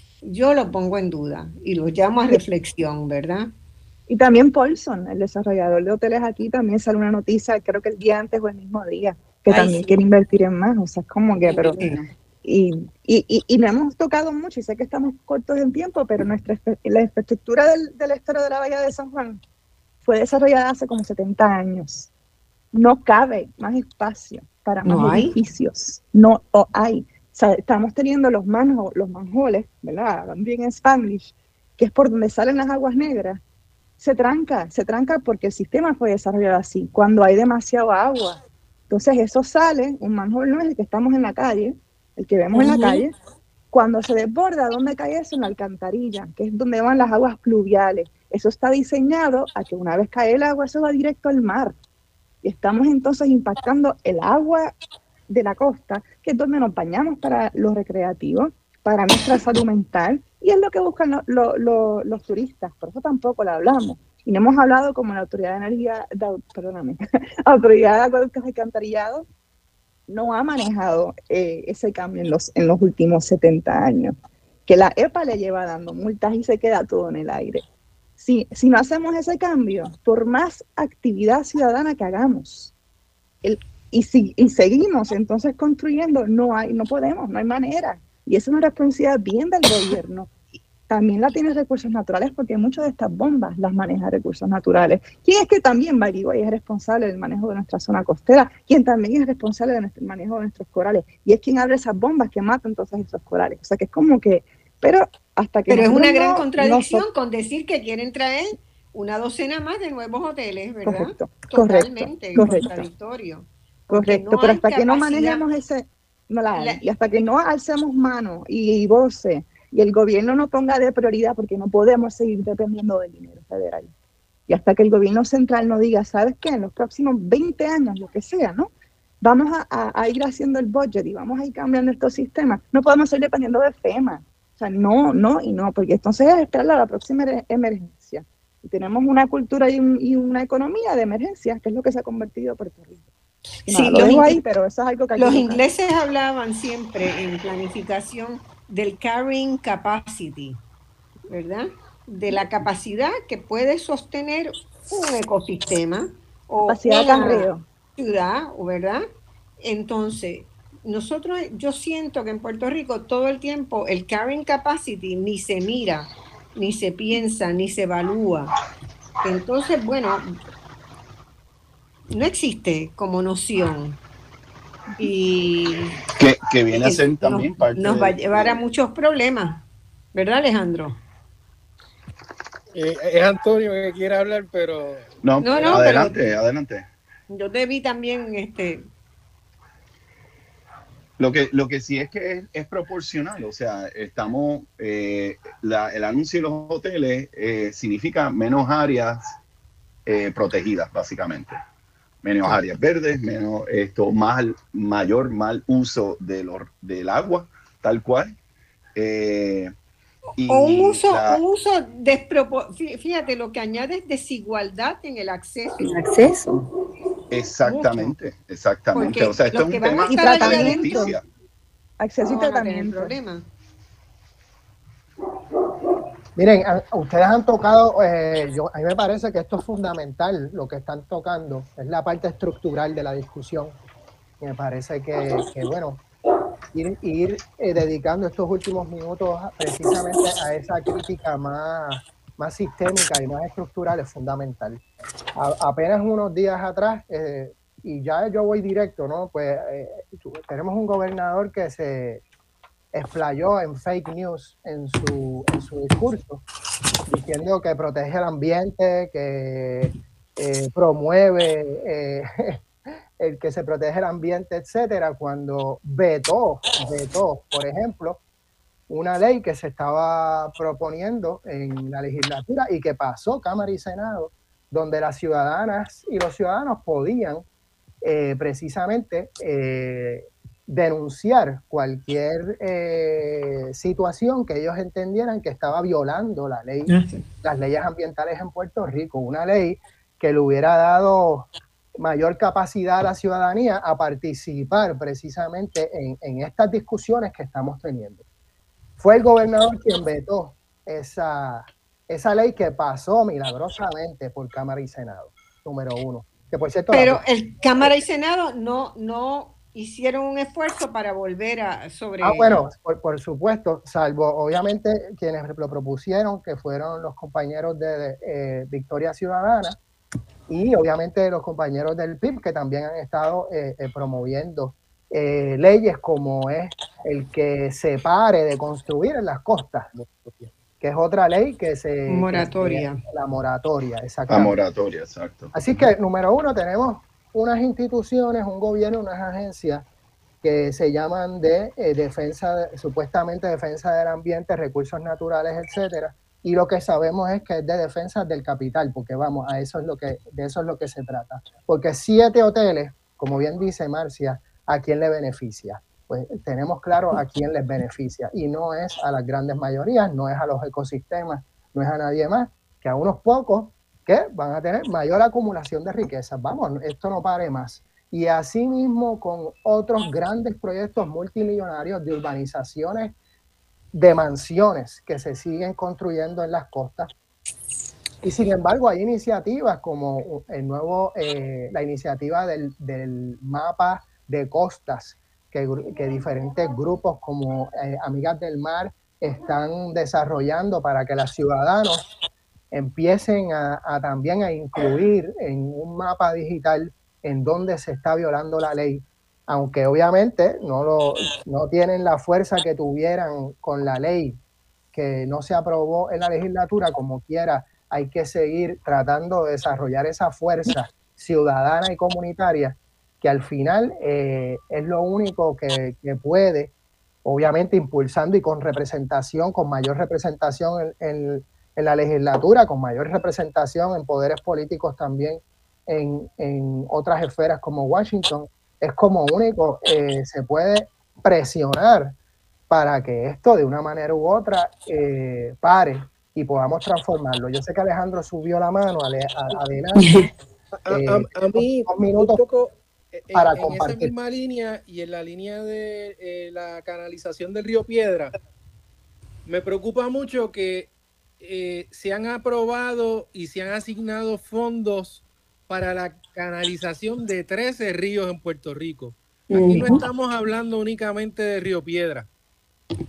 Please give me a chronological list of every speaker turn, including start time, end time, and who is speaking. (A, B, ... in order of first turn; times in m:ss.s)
0:00.2-0:03.5 A
0:04.1-0:19.4 B
0:09.5-0:10.0 A
0:11.4-0:12.0 A
0:20.0-0:22.1 B
0:22.7-0:33.4 B
0:24.8-0:25.4 A
0:34.0-0:38.4 B
0:38.9-0:43.1 B
0:42.5-0:43.0 A
0:43.7-0:51.8 B
0:52.4-0:54.7 B
0:55.3-1:09.2 B
1:10.1-1:14.2 B
1:14.7-1:17.6 B
1:18.2-1:22.7 B
1:23.4-1:30.3 B
1:30.9-1:47.0 B
1:45.7-1:55.4 A
1:50.8-1:52.9 B
1:53.9-2:03.9 B
1:56.5-1:56.8 A
2:04.5-2:08.7 B
2:09.2-2:23.0 B
2:23.6-2:24.4 A
2:23.7-2:25.6 B
2:25.2-2:30.6 A
2:31.3-2:39.0 A
2:36.6-2:37.6 B
2:39.6-2:48.5 A
2:49.2-2:50.4 A
2:52.1-2:54.0 A
2:55.0-2:56.0 A
2:56.2-2:58.6 C
2:56.7-3:01.0 A
3:02.7-3:06.1 D
3:05.2-3:06.9 C
3:05.4-3:06.2 A
3:07.3-3:08.9 A
3:11.2-3:19.2 C
3:20.0-3:21.5 C
3:22.2-3:28.3 C
3:29.0-3:29.7 C
3:30.4-3:31.4 C
3:30.5-3:36.0 A
3:35.9-3:36.4 B
3:37.3-3:41.2 C
3:37.6-3:38.1 A
3:38.9-3:41.1 A
3:40.0-3:41.1 B
3:42.0-3:43.2 B
3:42.3-3:43.5 A
3:46.4-3:53.8 E
3:54.4-3:56.0 E
3:56.7-4:04.8 E
4:05.4-4:12.2 E
4:12.9-4:16.4 E
4:17.1-4:22.6 E
4:23.2-4:28.2 E
4:28.9-4:37.4 E
4:38.0-4:58.2 E
4:46.9-4:47.2 A
4:59.0-5:07.2 E
5:06.9-5:12.6 A
5:12.2-5:19.8 E
5:20.5-5:29.9 E
5:29.9-5:30.5 D
5:30.8-5:34.5 E
5:32.1-5:33.0 A
5:34.3-5:35.5 C
5:35.5-5:39.8 E
5:40.4-6:13.2 E
6:13.9-6:17.1 E
6:18.2-6:32.1 E
6:32.7-6:44.4 E
6:44.9-6:56.7 E
6:57.2-7:12.2 E
7:12.7-7:20.3 E
7:20.8-7:28.3 D
7:20.9-7:22.4 E
7:23.3-7:24.1 E
7:29.5-7:42.3 D
7:39.5-7:40.0 A